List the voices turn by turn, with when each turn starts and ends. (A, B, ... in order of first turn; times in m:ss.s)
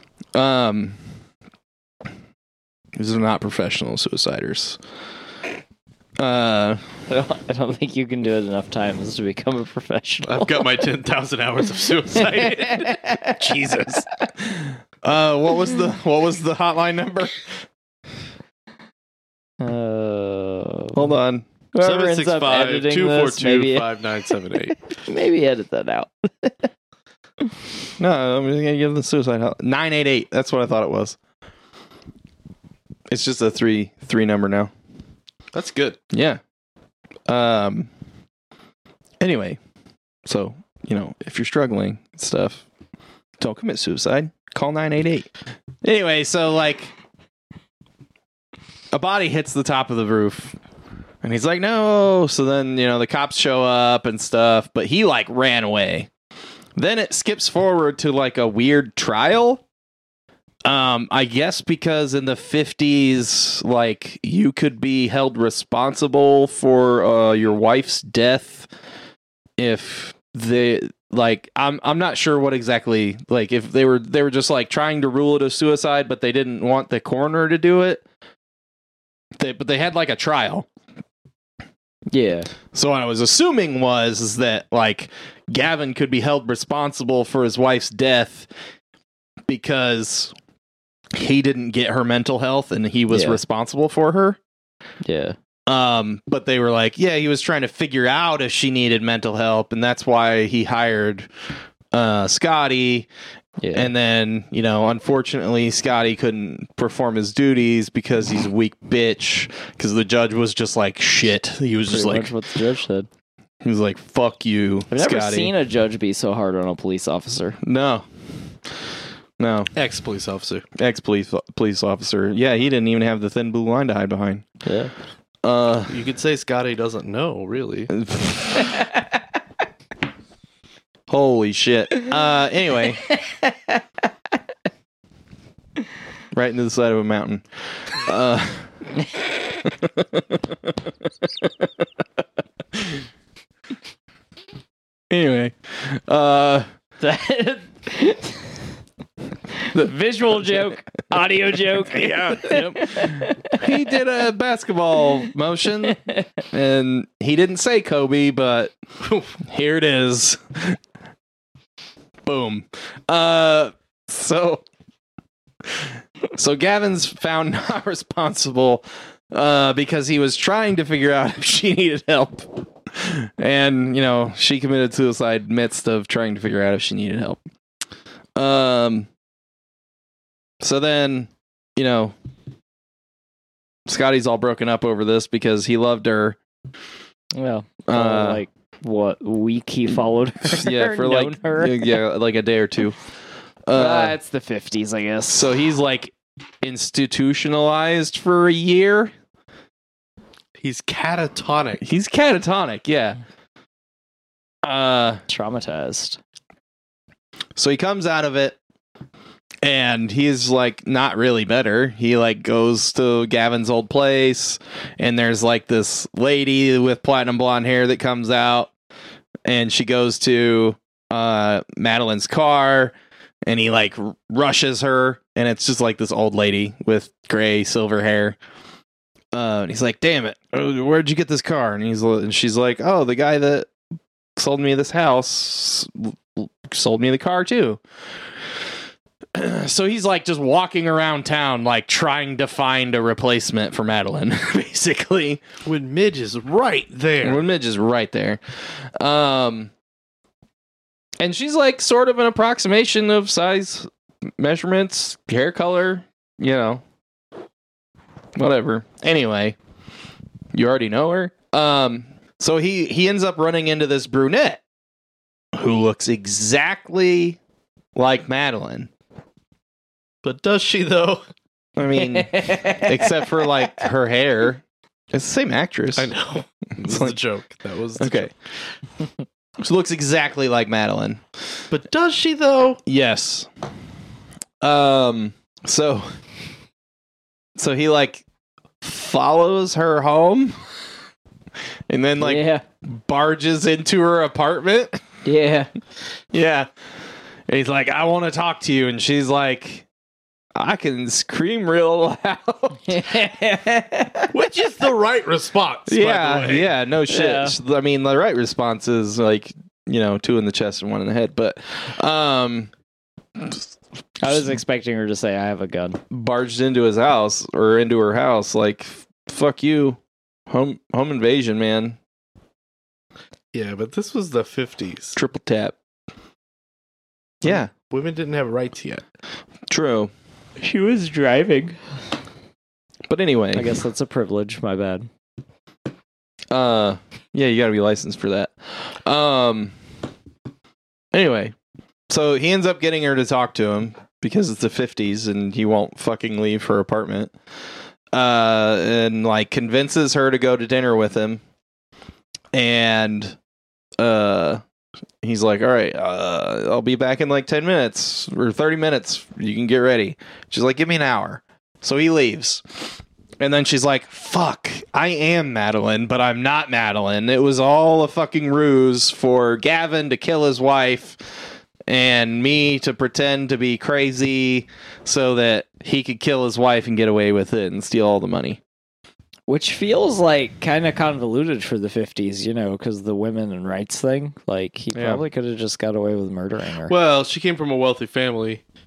0:00.3-0:01.0 A
0:03.0-0:04.8 A
0:06.2-0:06.8 A
0:07.1-0:10.7 B
0:10.2-0:14.0 C
0:12.2-0:14.0 B
0:14.6-0:17.7 A
0:19.6-0:21.0 B
0:20.9-0:21.4 A
0:21.7-0:23.9 B
0:21.8-0:24.8 C
0:24.9-0:26.7 B
0:28.0-0:31.2 A
0:33.1-0:34.7 A
0:35.5-0:36.0 C
0:36.1-0:36.4 A
0:37.3-0:37.9 A
0:39.2-0:39.6 A
0:40.2-0:42.6 A
0:43.4-0:45.3 A
0:45.8-0:46.9 A
0:48.9-0:50.6 A
0:51.2-0:56.1 A
0:56.8-0:59.6 A
1:00.6-1:08.7 A
1:09.6-1:18.0 A
1:19.4-1:20.7 A
1:22.1-1:22.5 B
1:22.7-1:28.5 A
1:29.5-1:30.3 A
1:31.1-1:34.4 A
1:33.1-1:33.4 B
1:35.0-1:35.4 B
1:35.7-1:41.3 A
1:41.9-1:43.1 A
1:43.6-1:43.9 B
1:43.7-1:52.3 A
1:51.9-1:53.1 B
1:53.6-1:55.5 A
1:54.9-1:57.6 B
1:57.6-1:58.1 A
1:59.4-1:59.7 A
1:59.7-2:00.6 C
2:00.7-2:04.4 A
2:04.6-2:04.9 B
2:05.4-2:05.9 A
2:05.9-2:07.9 C
2:07.9-2:08.7 A
2:11.1-2:13.1 A
2:16.3-2:18.9 A
2:19.7-2:21.7 A
2:22.7-2:23.0 A
2:25.1-2:26.7 A
2:27.0-2:28.6 B
2:29.5-2:33.7 B
2:29.7-2:30.6 A
2:31.9-2:38.7 A
2:35.9-2:36.2 B
2:39.0-2:39.3 C
2:39.4-2:40.8 A
2:42.2-2:44.6 A
2:45.6-2:57.4 A
2:58.4-2:59.1 A
3:00.6-3:02.1 A
3:03.9-3:06.4 A
3:07.4-3:12.0 B
3:07.9-3:08.4 A
3:10.4-3:13.0 A
3:13.6-3:14.2 A
3:13.7-3:15.5 B
3:15.3-3:19.1 A
3:20.6-3:21.8 C
3:21.8-3:23.2 A
3:24.6-3:25.2 A
3:25.3-3:26.2 B
3:27.6-3:28.6 A
3:29.6-3:38.7 A
3:39.4-3:48.4 A
3:49.3-3:53.7 A
3:54.4-3:57.8 A
3:59.4-4:05.4 A
4:05.6-4:07.4 C
4:07.2-4:09.7 A
4:11.2-4:16.8 A
4:18.4-4:19.6 A
4:20.5-4:24.6 A
4:25.5-4:27.4 A
4:27.9-4:28.9 A
4:30.2-4:31.2 C
4:31.8-4:36.1 A
4:32.0-4:33.5 B
4:36.0-4:38.3 C
4:36.8-4:37.2 A
4:38.0-4:38.3 A
4:39.6-4:41.2 A
4:41.7-4:42.8 C
4:42.9-4:43.5 A
4:44.6-4:46.1 A
4:47.6-4:48.2 A
4:48.8-4:50.6 A
4:51.9-4:55.0 A
4:52.2-4:52.6 B
4:55.2-4:55.7 B
4:56.3-4:56.7 A
4:57.5-4:59.9 A
5:00.6-5:03.0 A
5:02.9-5:04.3 B
5:04.3-5:06.7 C
5:05.9-5:12.7 A
5:07.1-5:07.6 B
5:13.4-5:13.6 A
5:14.2-5:16.0 B
5:16.1-5:22.0 A
5:23.5-5:25.2 C
5:25.2-5:25.8 A
5:27.4-5:27.7 A
5:27.5-5:29.0 C
5:29.7-5:30.1 A
5:30.6-5:31.8 B
5:33.1-5:33.8 A
5:33.5-5:35.1 B
5:36.5-5:39.7 A
5:41.1-5:41.5 A
5:42.1-5:47.3 A
5:48.1-5:51.4 A
5:52.5-5:53.4 A
5:54.0-5:54.6 A
5:55.2-6:02.6 A
6:03.4-6:18.6 A
6:19.5-6:26.9 B
6:24.9-6:25.2 A
6:26.9-6:28.6 C